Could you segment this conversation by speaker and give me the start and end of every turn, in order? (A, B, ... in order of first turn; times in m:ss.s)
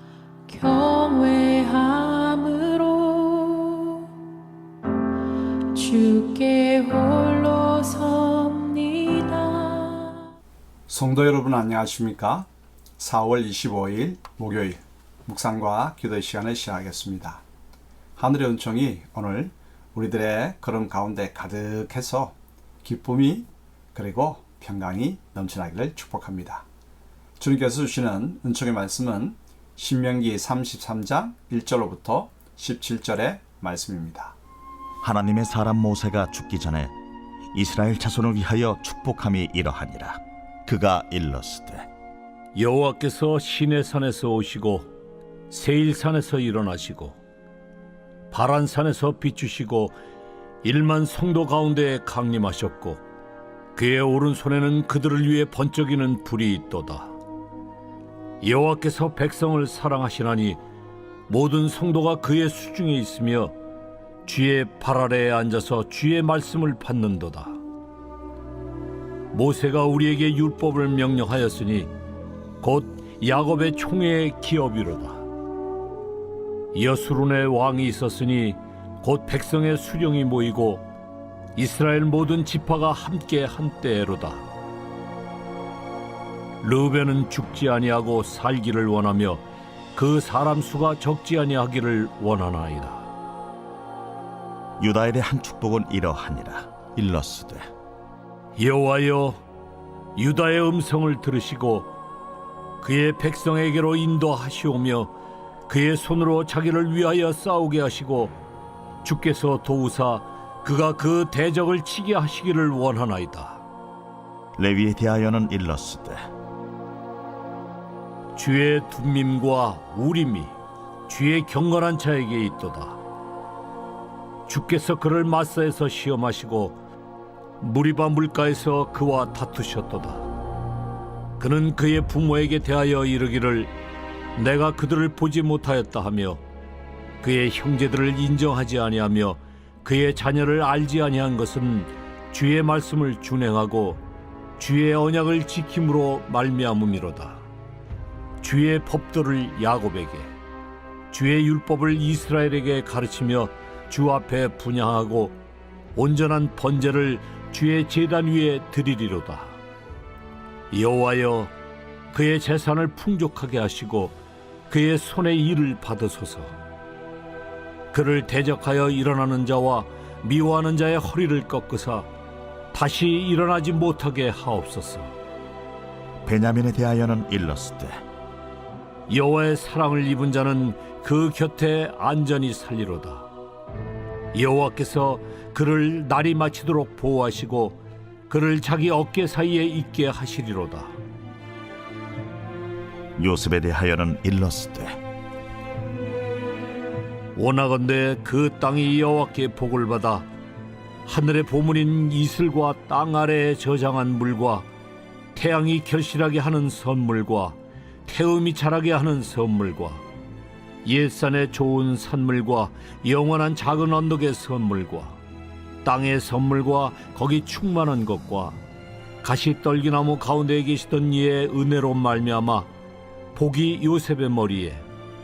0:00.5-0:04.1 A
0:05.7-0:10.2 A
0:10.9-0:17.4 B
0:18.2-0:26.7 B
0:27.4-0:34.4 B
0:35.0-0:37.0 C
0:37.5-0:41.9 C
0:42.6-0:44.9 D
0:45.5-0:47.2 D
0:48.3-0:50.0 D
0:50.6-0:53.0 D
0:53.8-0:57.1 D
0:58.4-1:00.6 D
1:01.3-1:03.5 D
1:04.2-1:07.6 D
1:09.3-1:11.9 D
1:12.6-1:15.2 D
1:16.7-1:20.8 D
1:21.6-1:24.4 D
1:26.6-1:29.4 D
1:30.0-1:33.1 D
1:34.8-1:37.6 C
1:38.6-1:39.4 D
1:40.2-1:41.9 D
1:42.8-1:45.1 D
1:45.7-1:48.3 D
1:49.0-1:53.6 D
1:54.6-1:56.2 C
1:58.4-2:00.6 D
2:01.1-2:03.0 D
2:04.5-2:06.8 D
2:07.6-2:10.2 D
2:11.4-2:13.7 D
2:14.4-2:16.4 D
2:17.2-2:24.0 D
2:24.6-2:27.4 D
2:28.4-2:30.3 D
2:31.1-2:35.4 D
2:35.9-2:39.6 D
2:40.7-2:41.5 D
2:42.1-2:44.2 D
2:44.7-2:46.5 D
2:47.9-2:52.1 D
2:52.7-2:55.1 D
2:56.2-2:58.0 C
2:59.1-3:03.3 D
3:04.3-3:07.8 D
3:08.3-3:11.0 D
3:13.2-3:15.0 C
3:17.3-3:20.3 D
3:21.1-3:24.7 D
3:25.3-3:30.0 D
3:30.8-3:35.2 D
3:35.8-3:38.6 D
3:39.2-3:42.7 D
3:43.3-3:44.8 D